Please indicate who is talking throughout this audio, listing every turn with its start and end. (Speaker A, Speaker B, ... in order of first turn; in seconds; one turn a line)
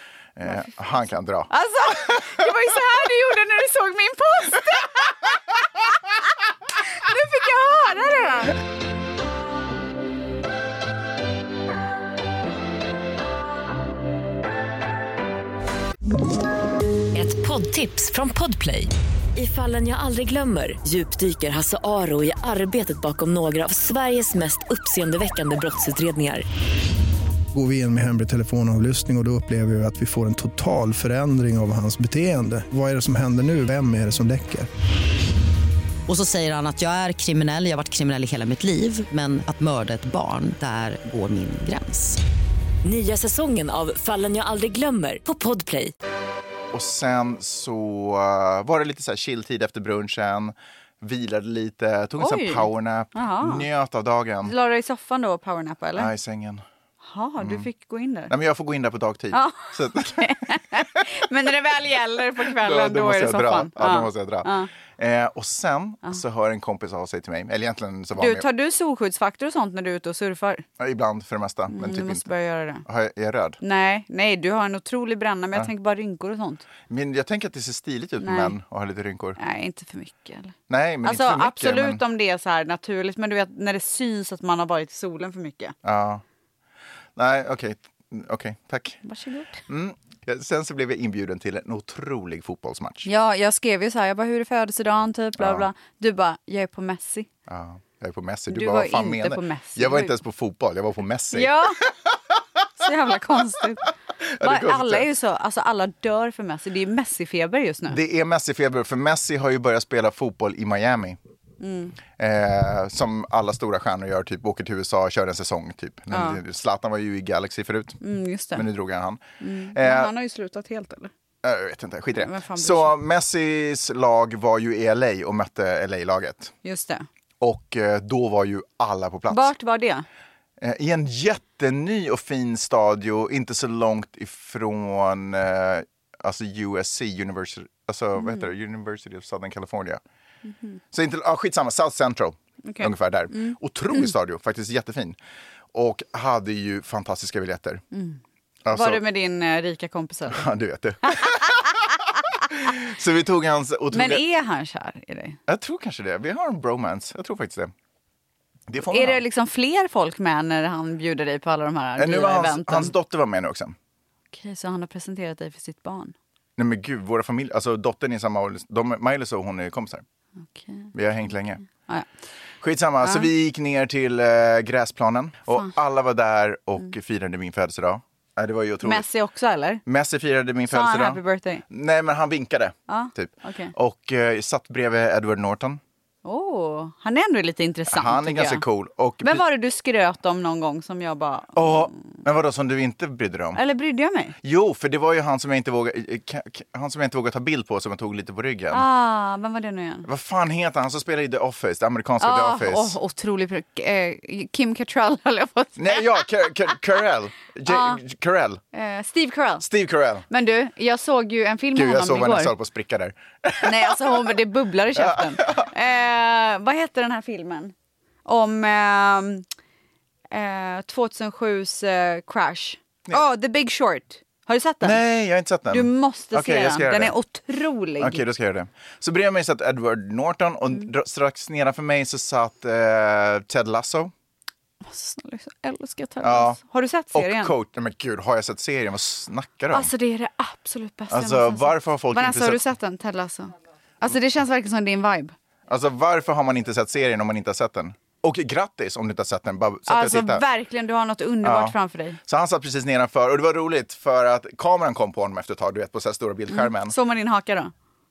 Speaker A: 0.4-2.5
Speaker B: 1.5-5.9
Speaker B: 6.8-8.6
Speaker C: 17.1-26.4
Speaker D: 27.5-34.7
Speaker E: 36.1-42.2
Speaker C: 42.8-45.9
Speaker A: 46.7-54.5
Speaker B: 52.2-53.7
Speaker B: 54.4-56.1
Speaker A: 56.0-56.6
Speaker B: 57.0-58.3
Speaker A: 57.4-57.7
Speaker A: 58.3-61.0
Speaker B: 59.3-64.7
Speaker A: 62.5-68.5
Speaker B: 68.2-70.7
Speaker A: 70.8-72.3
Speaker B: 71.7-72.8
Speaker A: 72.8-73.6
Speaker B: 73.6-76.7
Speaker A: 76.9-79.4
Speaker B: 78.2-78.5
Speaker B: 79.4-85.8
Speaker A: 80.7-82.0
Speaker A: 85.8-86.2
Speaker A: 87.2-89.0
Speaker B: 89.0-89.6
Speaker A: 89.7-93.1
Speaker B: 93.0-97.3
Speaker A: 95.4-95.7
Speaker A: 97.5-101.6
Speaker B: 98.5-100.2
Speaker B: 101.3-101.8
Speaker B: 102.8-103.8
Speaker A: 104.2-105.1
Speaker B: 104.4-108.0
Speaker A: 107.9-111.2
Speaker B: 111.6-112.0
Speaker A: 112.2-118.0
Speaker B: 116.1-116.4
Speaker B: 118.0-118.7
Speaker A: 118.5-119.2
Speaker B: 119.4-121.1
Speaker A: 119.7-120.1
Speaker A: 121.4-126.5
Speaker B: 122.1-123.0
Speaker B: 126.6-127.1
Speaker A: 127.4-129.5
Speaker B: 129.3-130.1
Speaker A: 130.6-140.0
Speaker B: 138.2-138.5
Speaker B: 140.5-140.8
Speaker A: 140.9-145.2
Speaker B: 142.7-144.1
Speaker A: 145.7-147.8
Speaker B: 147.9-148.2
Speaker A: 148.7-149.0
Speaker B: 148.7-150.5
Speaker A: 150.3-151.9
Speaker B: 151.0-151.8
Speaker A: 152.4-154.2
Speaker B: 153.9-155.4
Speaker A: 155.5-157.7
Speaker A: 158.7-159.2
Speaker B: 158.9-162.9
Speaker A: 162.0-163.8
Speaker B: 164.3-166.2
Speaker A: 166.6-170.0
Speaker B: 170.5-170.9
Speaker A: 170.9-171.6
Speaker B: 171.8-172.1
Speaker A: 172.6-179.1
Speaker B: 173.0-173.3
Speaker B: 178.8-179.8
Speaker A: 179.9-185.8
Speaker B: 180.7-181.6
Speaker B: 182.9-183.7
Speaker B: 186.2-188.6
Speaker A: 187.9-189.4
Speaker B: 189.2-192.0
Speaker A: 191.6-193.6
Speaker B: 193.6-194.3
Speaker A: 194.4-198.8
Speaker B: 198.7-200.1
Speaker A: 200.1-202.9
Speaker B: 202.2-206.2
Speaker A: 205.8-208.6
Speaker B: 207.7-208.0
Speaker B: 208.7-209.7
Speaker A: 209.6-210.2
Speaker B: 210.3-212.5
Speaker A: 211.8-214.4
Speaker B: 213.6-217.7
Speaker A: 214.9-215.7
Speaker B: 218.2-219.5
Speaker B: 220.3-225.0
Speaker A: 224.8-227.1
Speaker B: 225.7-228.2
Speaker A: 228.0-234.1
Speaker B: 234.8-237.5
Speaker A: 236.2-236.6
Speaker A: 237.1-239.9
Speaker B: 239.7-245.3
Speaker A: 241.1-242.6
Speaker A: 245.7-250.4
Speaker B: 249.9-252.2
Speaker A: 251.4-256.9
Speaker B: 256.5-257.7